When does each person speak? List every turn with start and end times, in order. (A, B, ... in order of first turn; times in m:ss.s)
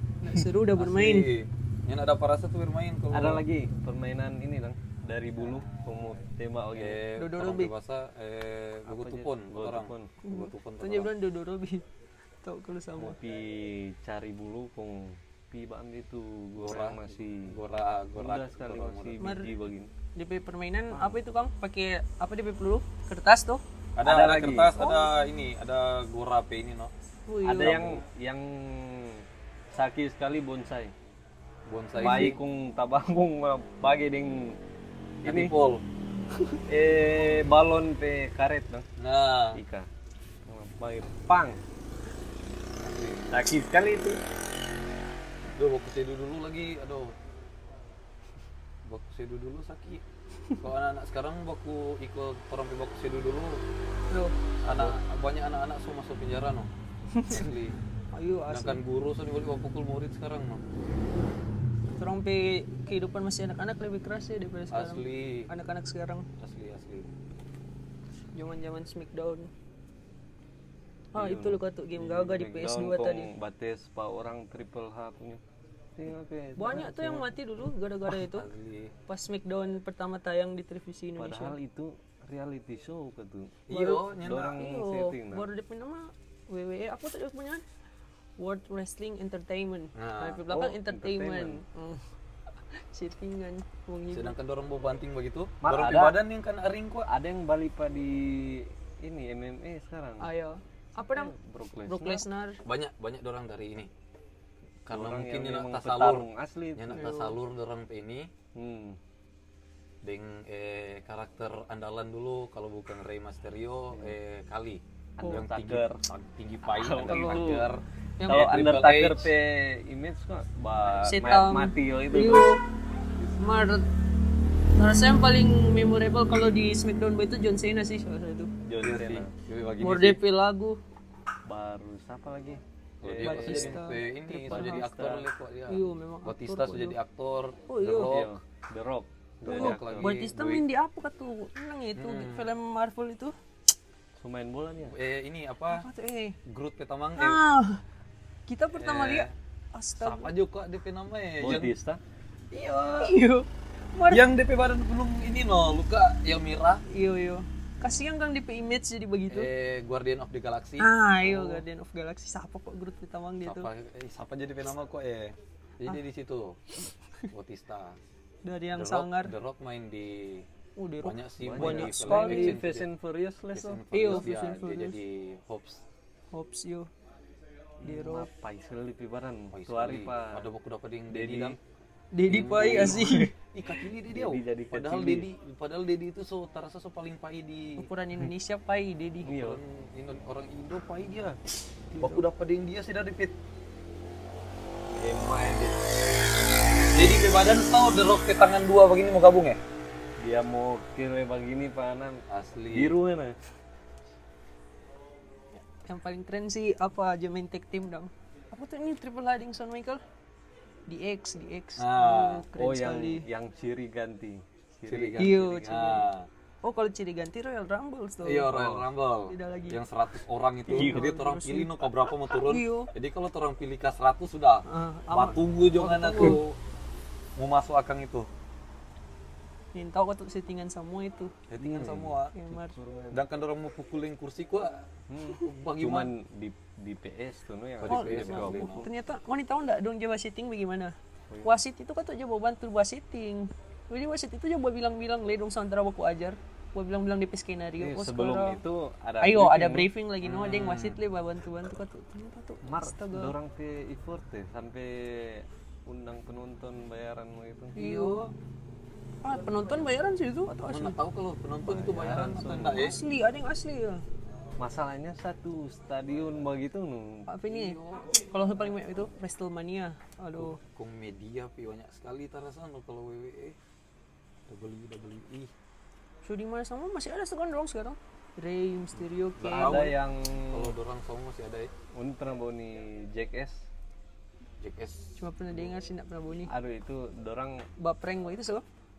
0:00.2-0:01.3 A
0:00.7-0:03.4 B
0:03.1-0:07.0 C
0:06.7-0:11.1 B
0:07.2-0:07.7 A
0:08.9-0:10.1 C
0:10.2-0:11.8 A
0:12.4-0:13.2 A
0:13.0-0:17.5 C
0:16.6-0:19.2 B
0:18.1-0:19.9 C
0:19.2-0:19.5 A
0:20.2-0:23.6 A
0:20.9-0:21.2 C
0:24.0-0:26.9 B
0:24.0-0:24.7 C
0:24.7-0:25.1 A
0:27.3-0:27.9 A
0:27.4-0:30.9 C
0:27.6-0:27.9 B
0:31.6-0:32.4 B
0:32.0-0:34.6 C
0:32.0-0:32.3 A
0:35.2-0:35.8 B
0:35.2-0:35.5 C
0:36.6-0:38.9 C
0:39.0-0:39.6 B
0:39.5-0:39.9 C
0:40.4-0:41.6 C
0:42.8-0:43.3 B
0:43.3-0:44.2 C
0:45.5-0:47.2 B
0:48.8-0:50.0 B
0:50.6-0:53.6 B
0:54.1-0:54.4 A
0:54.6-0:56.7 B
0:57.1-0:57.4 A
0:57.3-0:57.8 B
0:58.1-0:58.8 A
0:58.5-1:00.6 B
1:02.0-1:06.2 A
1:04.7-1:05.5 B
1:06.4-1:07.1 B
1:08.3-1:09.5 A
1:11.1-1:13.3 A
1:11.1-1:15.4 C
1:16.0-1:17.3 C
1:16.6-1:18.5 A
1:18.2-1:18.9 B
1:19.1-1:21.5 A
1:21.2-1:25.4 C
1:23.7-1:24.6 B
1:23.7-1:24.0 A
1:24.5-1:27.6 A
1:28.4-1:32.0 A
1:29.9-1:30.5 B
1:30.5-1:31.6 C
1:32.7-1:34.3 A
1:34.1-1:37.1 B
1:35.6-1:36.2 C
1:37.1-1:40.3 C
1:40.2-1:41.3 A
1:41.1-1:42.2 C
1:41.9-1:42.6 A
1:42.6-1:43.9 B
1:44.8-1:47.1 C
1:44.9-1:48.3 B
1:46.9-1:47.4 A
1:48.5-1:49.0 C
1:50.0-1:59.3 B
1:55.2-1:56.0 C
1:56.6-1:57.7 C
1:57.1-1:57.6 A
1:58.2-1:58.4 A
1:58.2-2:02.5 C
2:01.0-2:02.6 A
2:03.4-2:03.8 A
2:04.8-2:08.5 A
2:08.6-2:09.3 C
2:08.8-2:10.2 B
2:09.8-2:10.8 A
2:11.4-2:13.8 C
2:13.0-2:18.4 B
2:13.2-2:15.1 A
2:14.5-2:15.2 C
2:15.7-2:17.0 A
2:17.7-2:18.2 A
2:18.0-2:20.2 C
2:19.4-2:20.6 B
2:19.5-2:23.3 A
2:21.9-2:22.5 B
2:24.2-2:25.0 C
2:24.8-2:25.9 B
2:25.7-2:26.4 A
2:26.4-2:27.4 B
2:27.2-2:27.8 A
2:28.5-2:30.3 A
2:28.7-2:29.3 B
2:30.0-2:31.7 B
2:31.4-2:32.0 C
2:32.5-2:33.2 B
2:33.0-2:34.2 A
2:34.1-2:36.8 B
2:36.9-2:39.5 A
2:39.3-2:41.6 B
2:40.8-2:43.7 A
2:43.4-2:46.7 B
2:47.3-2:48.0 B
2:48.4-2:49.3 A
2:48.7-2:50.5 B
2:50.8-2:52.6 A
2:51.0-2:52.9 B
2:51.4-2:54.2 C
2:53.5-2:55.8 B
2:53.9-2:55.0 A
2:56.3-2:56.9 A
2:57.8-2:58.3 A
2:57.8-3:00.5 C
2:59.5-3:01.6 B
3:01.1-3:01.6 C
3:02.1-3:03.3 A
3:02.2-3:07.9 B
3:02.6-3:03.1 C
3:04.1-3:05.3 C
3:07.8-3:09.3 A
3:09.2-3:09.6 C
3:09.3-3:11.4 B
3:11.9-3:12.3 A
3:12.0-3:13.4 B
3:14.9-3:15.8 C
3:16.9-3:19.6 B
3:20.2-3:23.4 C
3:22.3-3:22.9 B
3:25.9-3:30.0 A
3:30.9-3:33.2 A
3:31.8-3:32.4 B
3:32.6-3:35.8 C
3:34.9-3:36.3 B
3:35.2-3:36.1 A
3:36.6-3:38.7 A
3:38.2-3:46.6 B
3:38.5-3:38.8 C
3:39.2-3:39.8 A
3:40.7-3:41.7 A
3:40.7-3:41.1 C
3:42.2-3:42.9 A
3:44.7-3:46.4 A
3:47.4-3:48.3 B
3:49.7-3:51.4 A
3:51.5-3:52.3 B
3:51.6-3:53.2 C
3:52.3-3:52.8 A
3:53.1-3:56.1 B
3:55.1-3:58.8 C
3:57.8-3:58.9 B
3:57.9-4:08.6 A
4:01.3-4:01.6 C
4:07.8-4:09.9 C
4:09.2-4:13.3 A
4:10.2-4:11.0 B
4:12.6-4:17.8 C
4:17.8-4:18.2 A
4:17.8-4:18.3 B
4:19.2-4:21.0 A
4:20.7-4:23.0 B
4:21.6-4:22.9 C
4:22.7-4:24.0 A
4:24.6-4:27.3 C
4:27.3-4:30.6 A
4:27.5-4:28.2 B
4:30.4-4:33.6 B
4:34.5-4:35.5 B
4:36.2-4:39.9 A
4:39.4-4:41.7 B
4:39.5-4:40.7 C
4:41.9-4:43.6 C
4:44.6-4:45.2 B
4:45.2-4:46.5 A
4:46.5-4:47.7 C
4:47.8-4:48.6 A